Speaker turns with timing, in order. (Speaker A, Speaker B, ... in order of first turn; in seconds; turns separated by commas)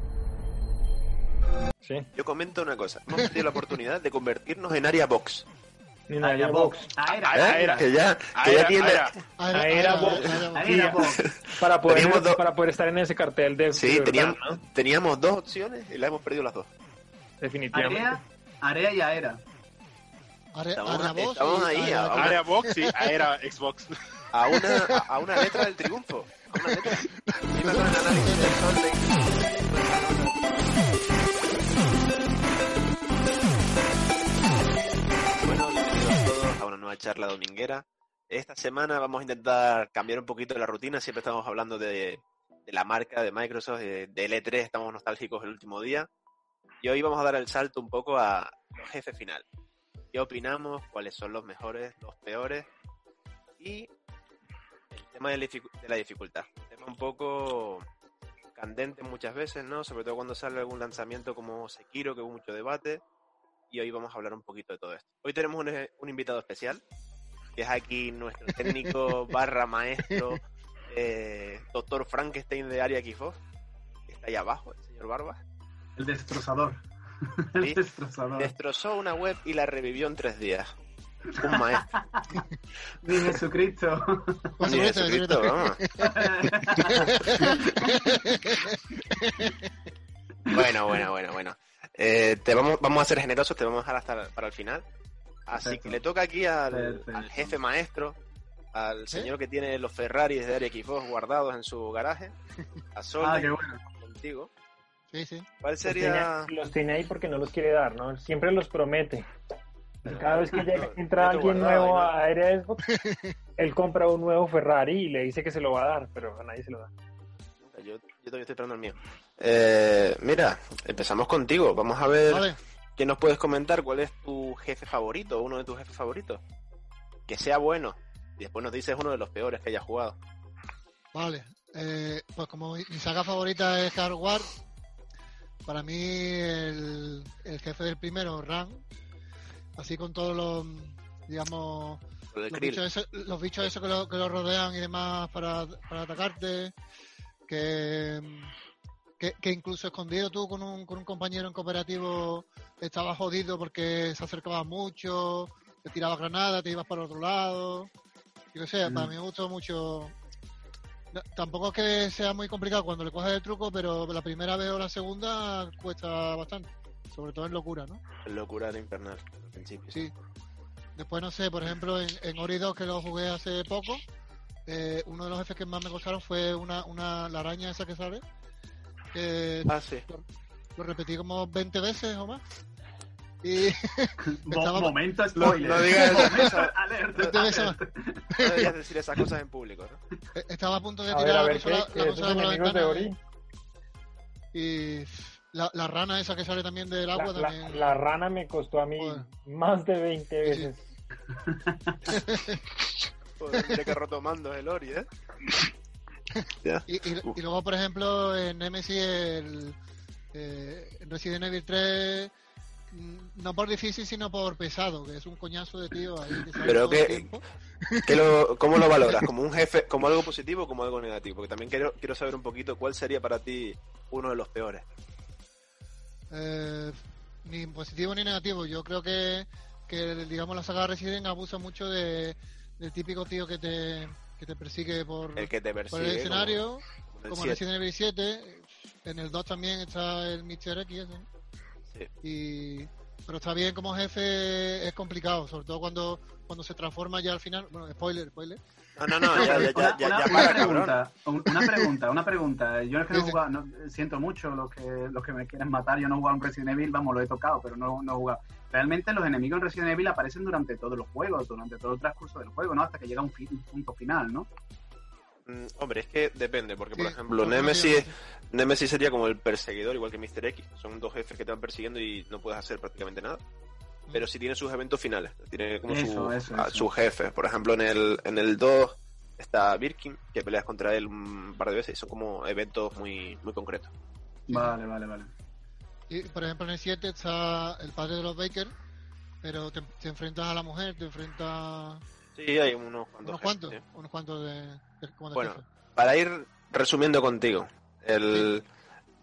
Speaker A: 2.1-5.5, Speaker B: 6.1-6.9, Speaker C: 6.2-7.8, Speaker D: 7.3-7.8, Speaker A: 7.3-9.1, Speaker D: 8.3-9.2, Speaker E: 9.4-10.9, Speaker B: 9.5-11.0, Speaker C: 9.7-11.2, Speaker A: 10.2-10.5, Speaker A: 11.2-12.4, Speaker B: 11.5-14.6, Speaker A: 13.7-16.7, Speaker B: 17.4-18.2, Speaker C: 17.7-19.4, Speaker E: 20.5-23.2, Speaker A: 20.8-22.4, Speaker D: 22.1-23.9, Speaker A: 24.3-30.9, Speaker E: 24.5-25.7, Speaker E: 26.5-28.6, Speaker A: 35.4-46.1, Speaker A: 46.8-49.4, Speaker A: 50.1-52.7, Speaker A: 53.6-53.9, Speaker A: 54.9-57.9, Speaker A: 58.5-63.0, Speaker A: 63.7-66.8, Speaker A: 67.5-73.4, Speaker E: 70.1-70.3, Speaker A: 74.1-75.4, Speaker C: 76.0-78.5, Speaker A: 78.4-80.7, Speaker A: 81.3-81.9, Speaker C: 81.4-82.5, Speaker C: 83.0-84.5, Speaker E: 84.6-89.7, Speaker A: 84.7-85.8, Speaker C: 86.0-88.0, Speaker A: 90.5-94.8, Speaker A: 95.5-98.2, Speaker C: 95.6-96.0, Speaker C: 96.7-97.5, Speaker A: 98.7-102.3, Speaker A: 102.9-104.5, Speaker C: 103.2-103.8, Speaker E: 105.1-105.5, Speaker A: 105.6-106.5, Speaker B: 105.8-109.3, Speaker B: 110.0-112.8, Speaker C: 110.0-110.6, Speaker A: 110.2-112.1, Speaker E: 112.8-113.3, Speaker B: 113.6-116.9, Speaker A: 117.6-126.4, Speaker E: 122.3-122.6, Speaker A: 127.3-130.2, Speaker E: 131.1-134.5, Speaker E: 135.7-138.8, Speaker E: 139.8-146.7, Speaker A: 142.3-142.8, Speaker E: 147.5-148.5, Speaker E: 149.2-157.9, Speaker E: 158.5-160.1, Speaker C: 158.8-159.1, Speaker E: 161.1-168.0, Speaker A: 168.2-170.0, Speaker E: 170.9-174.0, Speaker E: 174.7-178.2, Speaker E: 179.1-180.2, Speaker A: 179.7-180.0, Speaker E: 180.8-182.4, Speaker E: 183.4-186.5, Speaker C: 184.3-188.3, Speaker A: 185.3-187.4, Speaker E: 187.2-187.8, Speaker E: 188.3-188.7, Speaker A: 188.4-190.0, Speaker E: 190.3-193.1, Speaker B: 191.1-193.2, Speaker E: 194.5-197.9, Speaker B: 197.1-200.9, Speaker E: 199.0-199.3, Speaker E: 200.4-200.7, Speaker C: 201.5-201.9, Speaker E: 202.1-202.6, Speaker A: 203.4-205.1, Speaker E: 203.5-203.9, Speaker E: 206.4-209.8, Speaker A: 206.6-207.3, Speaker E: 210.3-212.3, Speaker E: 212.9-218.2, Speaker A: 216.6-217.3, Speaker A: 218.0-224.8, Speaker E: 218.8-219.3, Speaker E: 226.3-241.3, Speaker A: 235.3-237.6, Speaker E: 242.2-249.7, Speaker A: 248.9-251.0, Speaker C: 249.3-264.5, Speaker E: 250.3-250.6, Speaker E: 253.1-253.4, Speaker A: 265.4-273.4, Speaker E: 266.9-268.1, Speaker A: 274.1-283.9, Speaker C: 275.9-276.9, Speaker C: 284.5-285.3, Speaker E: 286.1-288.7, Speaker E: 289.4-292.0, Speaker A: 292.4-293.8, Speaker E: 293.2-295.7, Speaker A: 295.3-298.6